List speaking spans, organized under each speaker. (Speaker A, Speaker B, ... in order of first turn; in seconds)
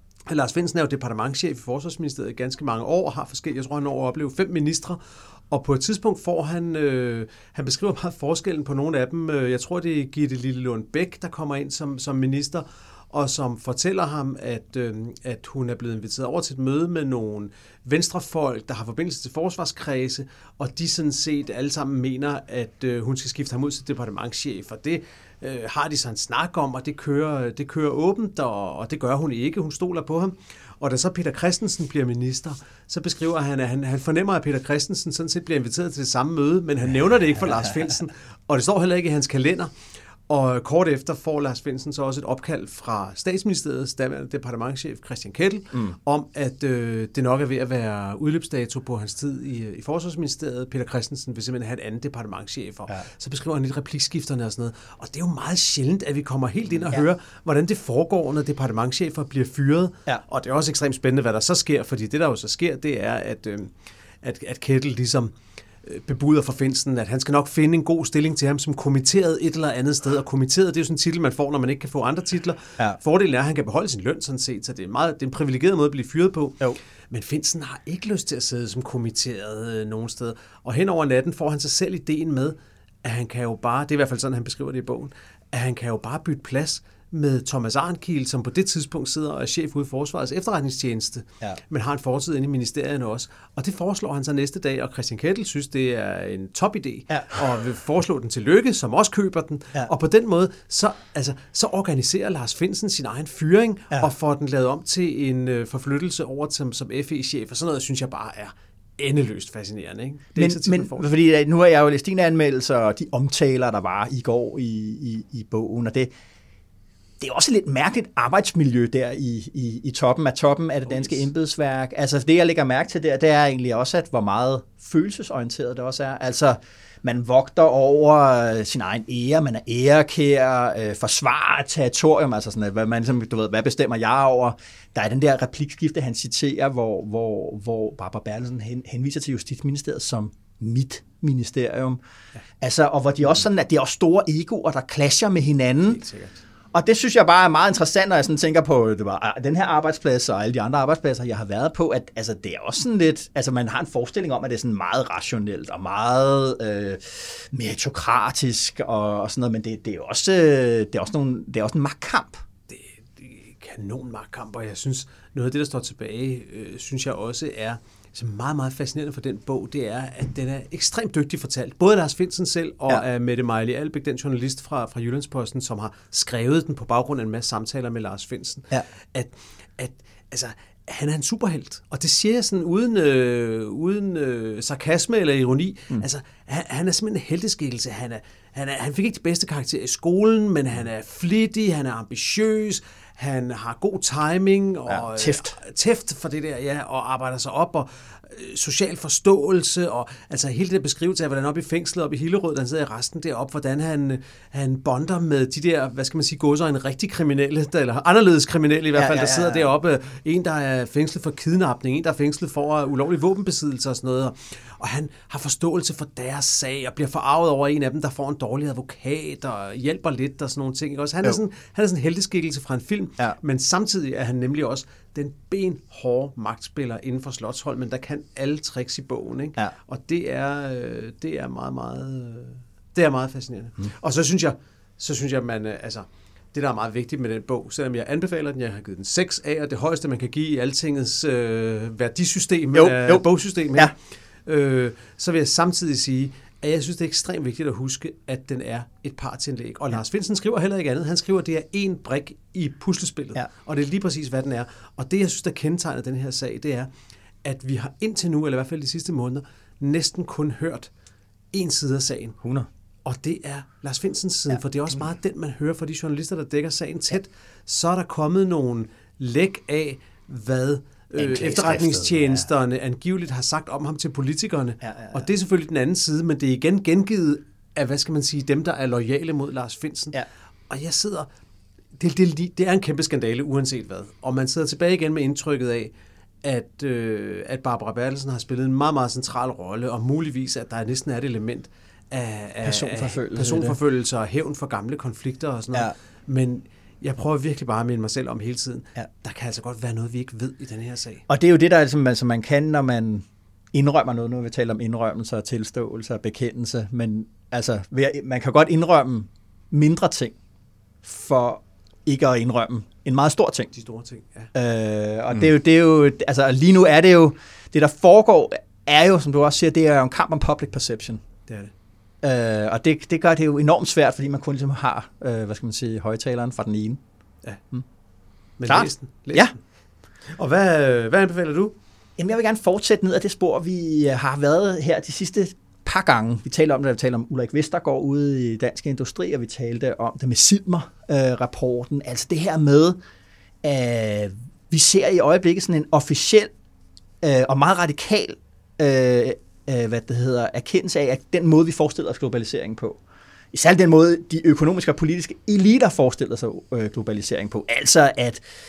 Speaker A: 0.3-39.7, 40.3-111.1, 120.9-121.2, 145.9-146.4, 162.7-256.9, 257.4-260.9, 261.5-262.4, 263.0-280.2, 280.7-281.3, 282.0-285.9, 286.4-301.2, 313.7-314.5, 321.5-321.7, 328.6-329.6, 330.3-331.7
Speaker B: 110.3-116.1, 117.2-142.0, 142.6-146.0, 146.7-162.4, 194.9-195.6, 208.9-209.6, 242.7-243.2, 262.4-262.7, 271.2-272.4, 274.8-275.2, 292.6-293.8, 301.3-310.3, 311.0-313.7, 314.5-321.2, 322.2-327.0, 328.6-329.5, 332.2-343.0, 343.6-346.5, 347.2-353.0, 353.5-358.4